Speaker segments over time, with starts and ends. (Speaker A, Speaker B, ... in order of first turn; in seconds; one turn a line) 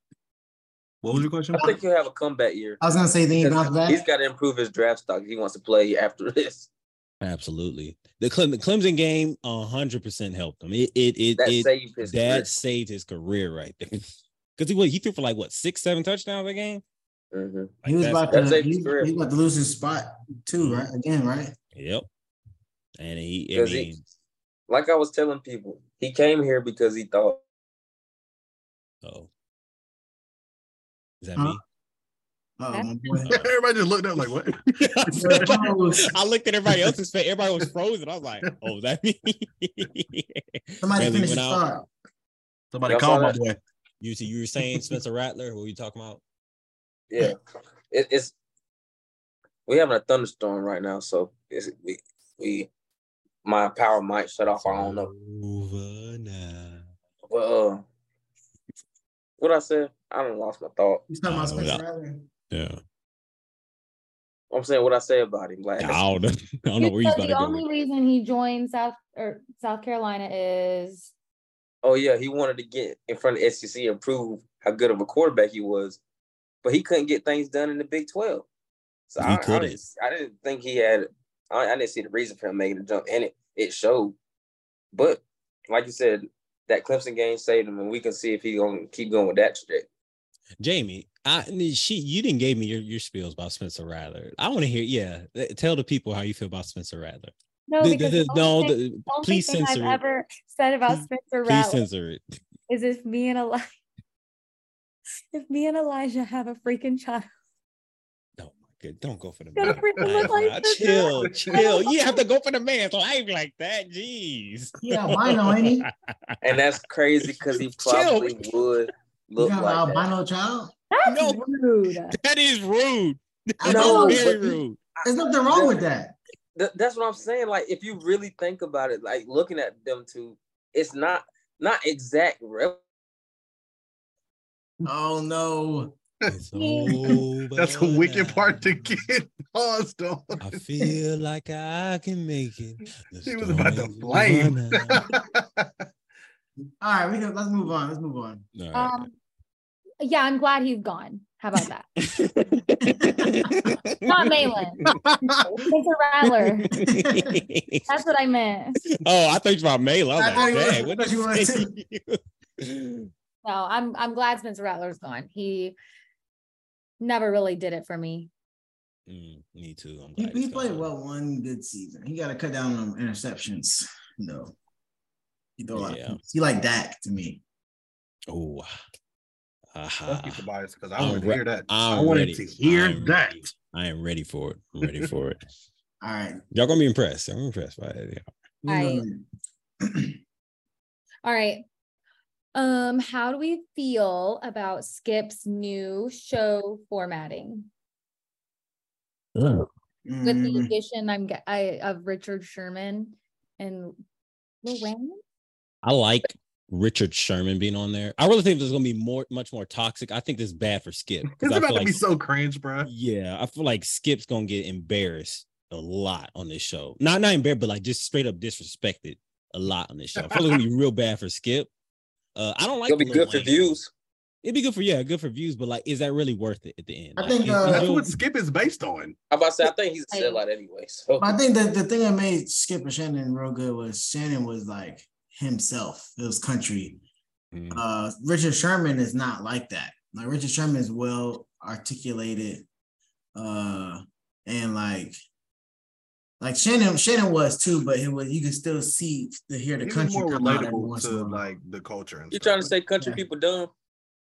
Speaker A: 1.0-1.7
Speaker B: 1.1-1.8
Speaker C: 1.6-2.8
Speaker B: 2.8-4.1
Speaker C: 3.4-6.7
Speaker D: 7.2-16.8
Speaker C: 11.4-12.5
Speaker C: 17.3-17.7
Speaker D: 17.8-18.4
Speaker B: 17.9-21.5
Speaker C: 18.3-19.1
Speaker D: 20.6-20.9
Speaker D: 21.7-22.1
Speaker D: 23.0-24.0
Speaker C: 23.5-23.9
Speaker C: 24.7-27.4
Speaker D: 29.0-29.3
Speaker D: 31.2-31.6
Speaker B: 32.6-33.4
Speaker E: 32.7-33.0
Speaker D: 33.2-33.5
Speaker A: 33.3-35.8
Speaker D: 34.7-41.7
Speaker B: 35.1-36.1
Speaker A: 36.7-37.0
Speaker B: 40.8-41.9
Speaker A: 42.7-43.6
Speaker C: 42.9-43.4
Speaker D: 44.0-46.2
Speaker C: 47.1-47.4
Speaker C: 47.9-48.3
Speaker C: 49.7-52.7
Speaker C: 53.4-55.1
Speaker D: 54.6-56.9
Speaker C: 57.3-57.9
Speaker C: 59.4-61.0
Speaker B: 61.1-62.3
Speaker D: 61.3-61.8
Speaker D: 62.5-62.8
Speaker C: 64.5-66.0
Speaker D: 65.8-67.6
Speaker E: 66.8-71.1
Speaker C: 71.8-76.0
Speaker C: 76.6-78.5
Speaker C: 79.1-84.2
Speaker D: 79.2-79.8
Speaker C: 84.9-89.9
Speaker D: 90.6-100.0
Speaker E: 97.7-101.8
Speaker D: 100.9-102.2
Speaker E: 102.7-103.7
Speaker E: 105.3-107.3
Speaker D: 108.4-116.6
Speaker E: 109.5-112.2
Speaker A: 109.8-110.3
Speaker A: 111.3-111.6
Speaker B: 114.8-115.9
Speaker C: 116.4-120.1
Speaker D: 117.2-118.5
Speaker B: 119.4-120.7
Speaker E: 120.9-122.2
Speaker D: 121.1-121.4
Speaker D: 122.1-124.8
Speaker B: 123.6-126.2
Speaker C: 123.7-124.4
Speaker C: 125.0-125.8
Speaker C: 126.6-132.8
Speaker B: 134.8-136.0
Speaker D: 136.3-138.7
Speaker E: 136.5-137.0
Speaker A: 136.9-140.9
Speaker D: 140.4-145.1
Speaker A: 143.3-145.7
Speaker B: 146.8-148.5
Speaker D: 148.6-149.1
Speaker E: 148.7-149.1
Speaker E: 150.0-151.9
Speaker D: 152.0-154.9
Speaker B: 152.8-153.6
Speaker E: 154.1-154.8
Speaker A: 154.9-155.6
Speaker E: 155.4-156.7
Speaker D: 156.5-157.9
Speaker B: 156.8-157.4
Speaker E: 157.9-158.8
Speaker D: 158.9-163.1
Speaker B: 160.2-161.7
Speaker E: 163.4-165.8
Speaker E: 167.0-168.3
Speaker D: 169.1-170.9
Speaker B: 170.2-174.6
Speaker B: 175.6-177.4
Speaker D: 175.8-176.2
Speaker D: 178.3-178.7
Speaker D: 179.7-180.4
Speaker A: 180.1-183.5
Speaker D: 181.0-185.4
Speaker A: 184.8-185.1
Speaker B: 186.0-186.4
Speaker D: 186.5-188.3
Speaker B: 188.6-189.2
Speaker E: 188.7-189.1
Speaker B: 189.8-190.2
Speaker E: 191.2-191.7
Speaker E: 192.5-197.7
Speaker D: 199.4-199.7
Speaker B: 200.1-200.8
Speaker E: 200.2-204.0
Speaker E: 204.6-205.2
Speaker D: 205.8-212.0
Speaker A: 211.3-212.9
Speaker D: 212.8-221.7
Speaker A: 220.3-220.6
Speaker D: 222.3-223.8
Speaker C: 222.9-223.9
Speaker D: 224.4-228.1
Speaker B: 227.2-227.9
Speaker A: 227.6-229.2
Speaker C: 229.3-231.4
Speaker E: 230.1-230.4
Speaker B: 231.2-237.0
Speaker D: 237.5-237.8
Speaker B: 237.7-242.7
Speaker B: 243.3-245.2
Speaker B: 246.4-251.4
Speaker A: 249.8-252.7
Speaker C: 252.3-253.7